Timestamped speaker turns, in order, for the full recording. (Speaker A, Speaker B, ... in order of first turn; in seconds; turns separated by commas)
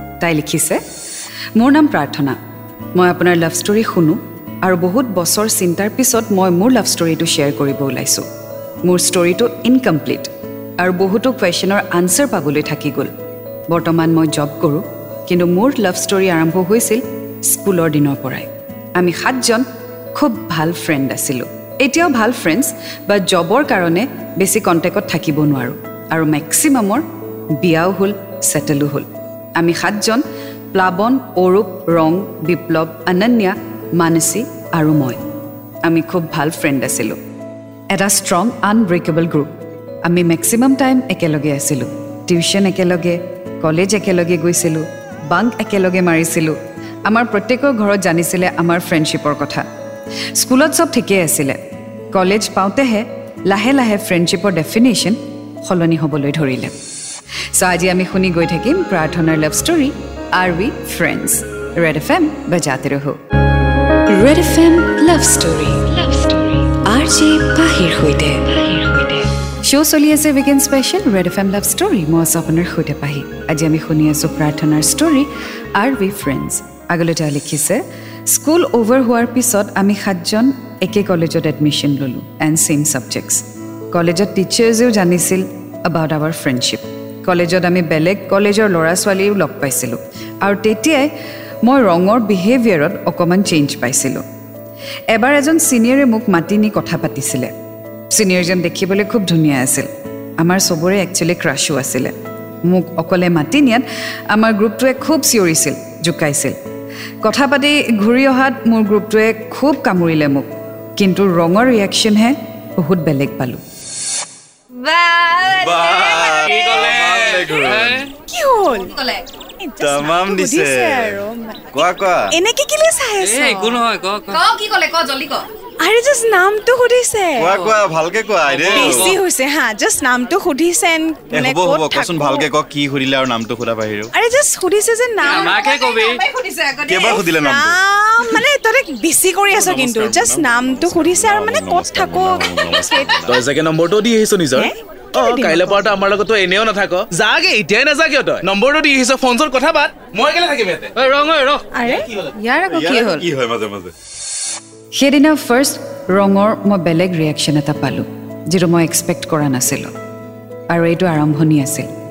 Speaker A: 0.2-0.8, Speaker A: 1.6-2.4, Speaker A: 3.0-8.2, Speaker A: 8.8-13.1, Speaker A: 13.7-27.0, Speaker A: 27.6-35.2, Speaker A: 35.8-37.2, Speaker A: 37.9-39.5, Speaker A: 40.0-49.6, Speaker A: 50.3-51.6, Speaker A: 52.1-56.7, Speaker A: 57.5-63.2, Speaker A: 64.1-91.1, Speaker A: 91.6-94.2, Speaker A: 95.1-97.5, Speaker A: 98.1-102.1, Speaker A: 102.7-106.5, Speaker A: 107.2-110.5, Speaker A: 111.0-113.6, Speaker A: 114.8-116.6, Speaker B: 115.6-118.0, Speaker C: 115.9-117.7, Speaker D: 116.5-118.1, Speaker E: 118.3-119.0, Speaker A: 118.9-119.2, Speaker E: 119.6-123.8, Speaker B: 119.8-121.2, Speaker B: 121.7-122.3, Speaker D: 123.2-124.4, Speaker A: 124.3-125.4, Speaker E: 125.8-127.5, Speaker B: 127.4-129.2, Speaker D: 128.5-129.2, Speaker E: 128.7-132.5, Speaker B: 131.3-134.1, Speaker E: 134.1-135.7, Speaker D: 135.2-136.2, Speaker A: 135.3-137.2, Speaker B: 136.9-137.8, Speaker E: 137.0-142.6, Speaker B: 139.5-143.4, Speaker C: 143.2-150.9, Speaker E: 144.5-145.8, Speaker D: 151.0-151.6, Speaker E: 151.7-152.1, Speaker C: 151.8-152.2, Speaker A: 152.3-153.2, Speaker B: 152.7-153.9, Speaker A: 154.9-159.9, Speaker A: 160.7-161.9